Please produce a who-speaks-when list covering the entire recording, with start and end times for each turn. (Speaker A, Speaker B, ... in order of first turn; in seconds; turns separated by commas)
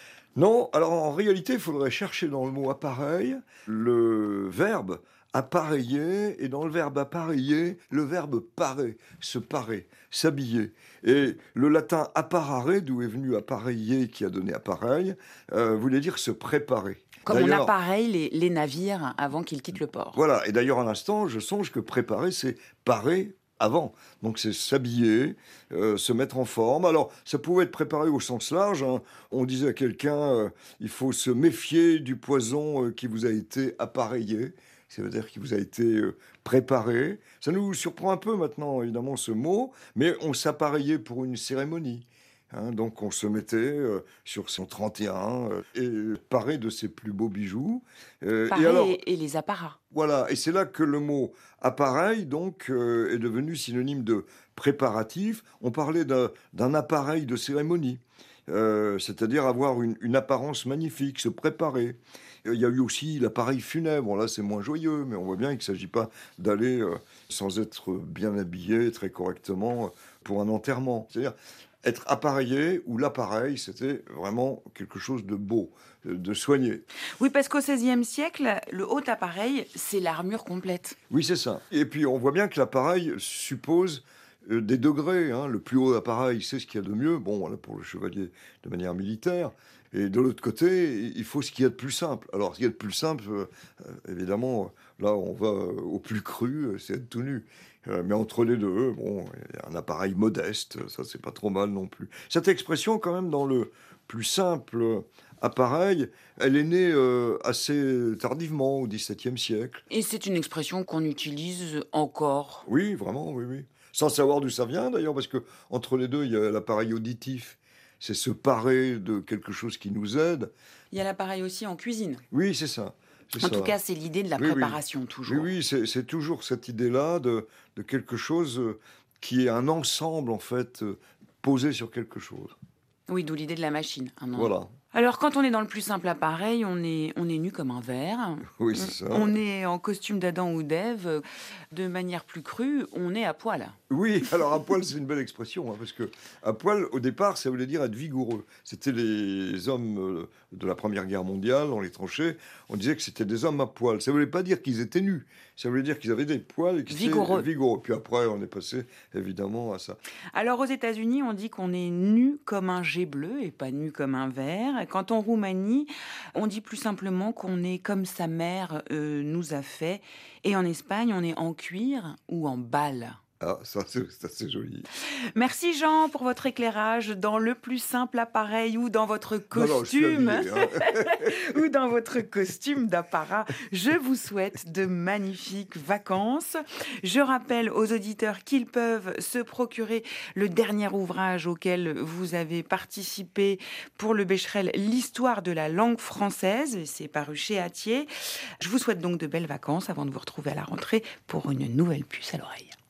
Speaker A: 0.3-17.7, Speaker B: 17.2-20.2, Speaker A: 20.1-49.0, Speaker B: 48.5-49.8, Speaker A: 49.9-76.8, Speaker B: 77.2-81.0, Speaker A: 81.1-109.8, Speaker B: 109.9-112.7, Speaker A: 112.7-120.5, Speaker B: 120.9-122.2, Speaker A: 122.3-123.8, Speaker B: 123.4-125.5, Speaker A: 124.4-132.5, Speaker B: 133.1-143.8, Speaker A: 134.3-134.7, Speaker A: 138.6-139.4, Speaker A: 143.9-160.0, Speaker B: 156.9-157.5, Speaker B: 160.3-173.2, Speaker A: 173.4-174.9, Speaker B: 175.3-198.1, Speaker A: 179.5-181.3, Speaker B: 198.6-202.7